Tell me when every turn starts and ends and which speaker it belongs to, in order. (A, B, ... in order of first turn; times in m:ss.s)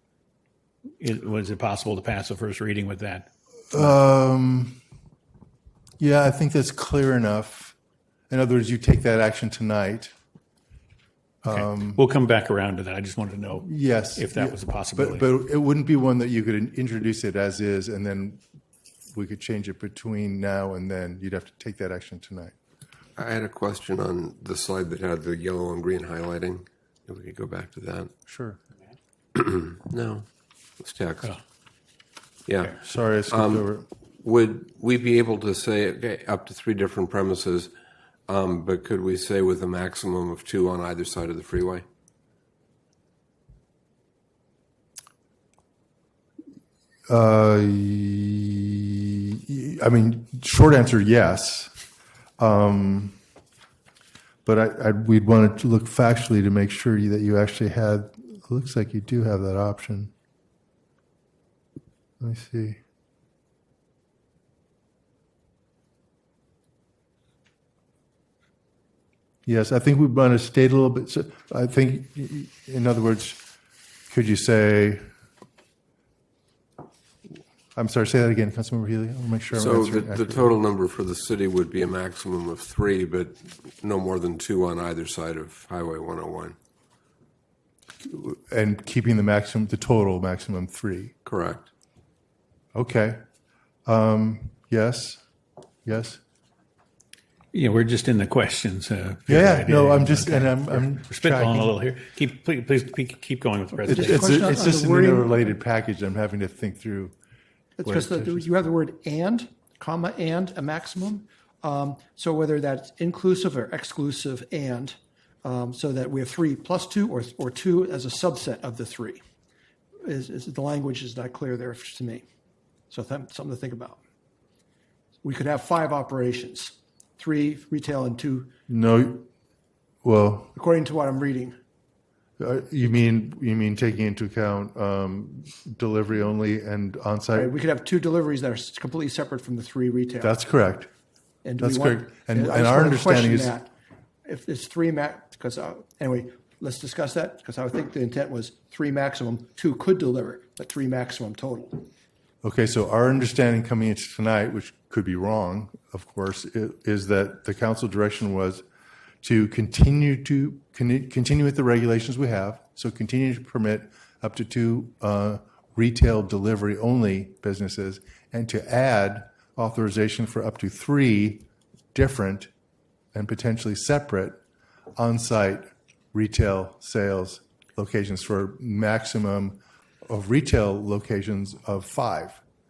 0:01.0-0:03.3 A
0:03.7-0:04.8 B
0:06.0-0:07.8 B
0:08.3-0:10.1 B
0:11.4-0:12.0 B
0:11.4-0:15.3 A
0:13.6-0:18.4 B
0:19.1-0:22.5 B
0:23.2-0:25.9 C
0:23.2-0:28.1 D
0:27.1-0:28.0 C
0:28.3-0:28.6 B
0:29.3-0:30.2 C
0:29.4-0:30.2 D
0:30.8-0:31.3 D
0:30.8-0:31.2 C
0:32.5-0:32.7 D
0:32.8-0:33.8 B
0:34.2-0:37.7 D
0:35.8-0:37.7 C
0:38.3-0:41.4 C
0:38.3-0:41.8 D
0:47.1-0:51.7 B
0:52.4-0:53.2 B
0:54.4-1:00.1 B
1:02.2-1:02.8 B
1:09.4-1:13.4 B
1:14.1-1:15.0 B
1:17.7-1:20.5 B
1:19.5-1:26.6 D
1:24.4-1:25.3 C
1:26.2-1:26.5 C
1:28.0-1:31.1 B
1:31.2-1:31.7 D
1:32.7-1:33.2 B
1:33.8-1:35.2 B
1:35.8-1:36.2 B
1:37.5-1:44.4 A
1:39.3-1:41.7 B
1:43.8-1:47.1 B
1:43.9-1:45.4 C
1:47.8-1:59.2 C
1:47.8-1:48.5 B
2:00.0-2:02.2 C
2:02.9-2:04.0 C
2:05.2-2:08.5 C
2:08.7-2:09.3 B
2:10.0-2:10.5 B
2:10.5-2:11.6 C
2:12.4-2:17.5 B
2:17.3-2:20.3 C
2:20.2-2:20.9 B
2:21.4-2:23.7 C
2:21.6-2:23.5 B
2:24.2-2:31.9 C
2:32.4-2:38.6 B
2:39.2-2:52.5 B
2:53.1-2:54.4 B
2:55.0-3:02.4 B